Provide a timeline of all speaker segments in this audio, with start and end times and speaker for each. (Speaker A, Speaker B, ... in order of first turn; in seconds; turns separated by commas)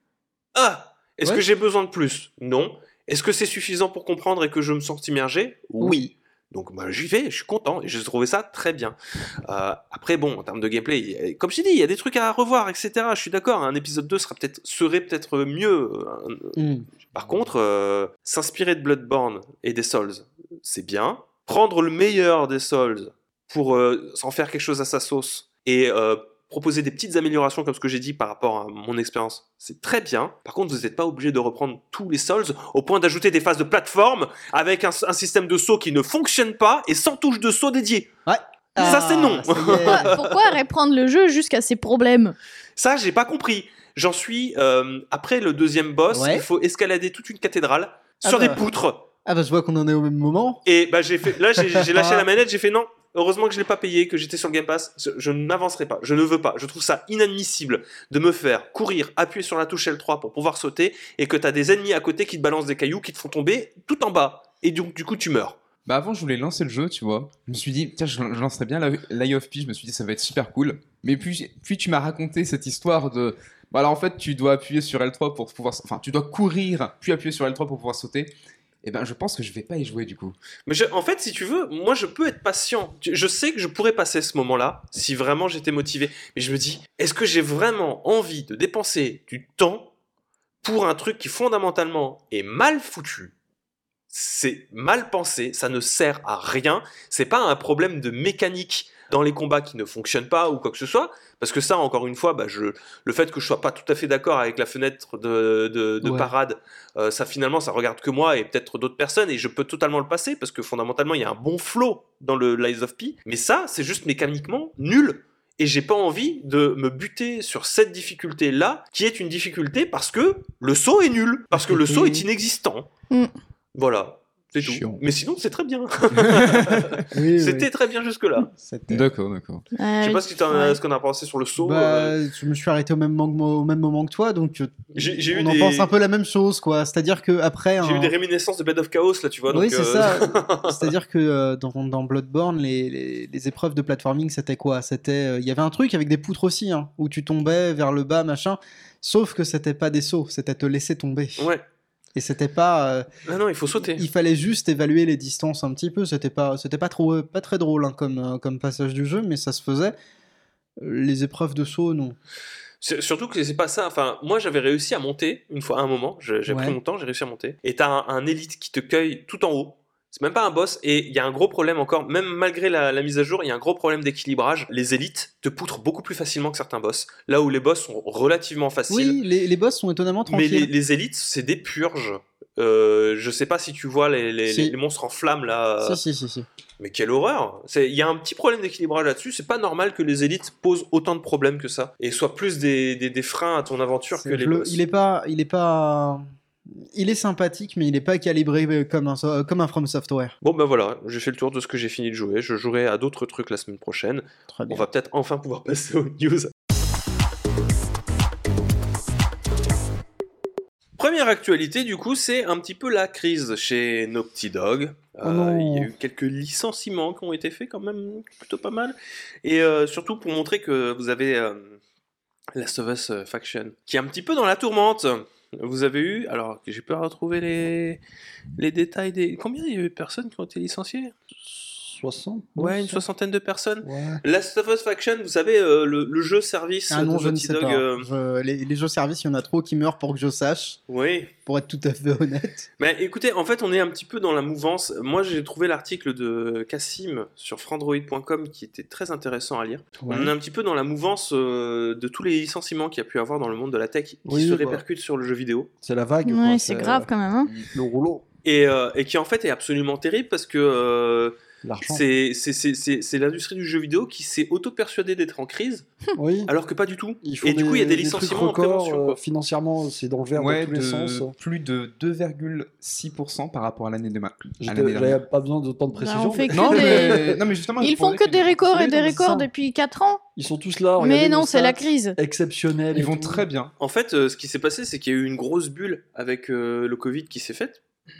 Speaker A: 0.5-38.1, Speaker B: 5.8-6.1, Speaker B: 16.6-16.9, Speaker B: 38.3-40.1, Speaker A: 38.8-40.4, Speaker C: 39.8-42.4, Speaker A: 42.8-49.1, Speaker B: 46.1-46.4, Speaker B: 48.2-48.6, Speaker B: 49.2-50.6, Speaker A: 50.6-65.6, Speaker B: 51.6-52.2, Speaker D: 65.8-80.3, Speaker A: 80.7-89.9, Speaker A: 90.6-93.3, Speaker A: 94.1-122.9, Speaker B: 106.0-106.3, Speaker B: 121.5-122.2, Speaker A: 123.7-128.5, Speaker D: 124.6-125.0, Speaker D: 126.1-127.1, Speaker B: 127.1-127.7, Speaker B: 128.5-129.1, Speaker D: 128.9-129.7, Speaker C: 129.7-130.8, Speaker A: 130.0-132.2, Speaker B: 131.6-138.1, Speaker A: 134.9-135.9, Speaker A: 137.8-140.9, Speaker B: 139.5-151.5, Speaker A: 151.4-151.6, Speaker B: 152.1-153.1, Speaker A: 153.2-154.0, Speaker B: 153.9-159.9, Speaker B: 160.8-162.2, Speaker A: 162.8-179.2, Speaker B: 166.5-166.8, Speaker B: 178.9-180.7, Speaker A: 180.3-186.0, Speaker B: 184.5-184.7, Speaker B: 185.8-186.5, Speaker A: 186.8-194.8, Speaker B: 194.1-196.2, Speaker B: 196.9-200.3, Speaker A: 200.4-206.5, Speaker B: 204.5-204.8, Speaker A: 211.0-221.8, Speaker E: 215.2-215.9, Speaker A: 222.5-228.0, Speaker A: 228.6-231.1, Speaker E: 231.4-233.0, Speaker A: 232.6-238.1, Speaker E: 233.8-234.2, Speaker B: 236.9-240.8, Speaker A: 240.9-241.3, Speaker B: 241.4-242.7, Speaker A: 242.8-255.7, Speaker B: 250.1-250.3, Speaker E: 254.2-254.8, Speaker E: 255.8-257.1, Speaker C: 256.2-257.5, Speaker E: 257.7-258.2, Speaker A: 258.4-265.9, Speaker E: 261.6-262.0, Speaker E: 266.2-266.5, Speaker A: 266.5-269.2, Speaker E: 267.2-271.3, Speaker D: 270.4-275.2, Speaker E: 274.6-277.4, Speaker C: 276.0-280.2, Speaker D: 276.5-278.8, Speaker B: 278.8-279.5, Speaker E: 280.4-283.4, Speaker C: 281.0-282.2, Speaker D: 282.9-283.7, Speaker A: 283.8-287.8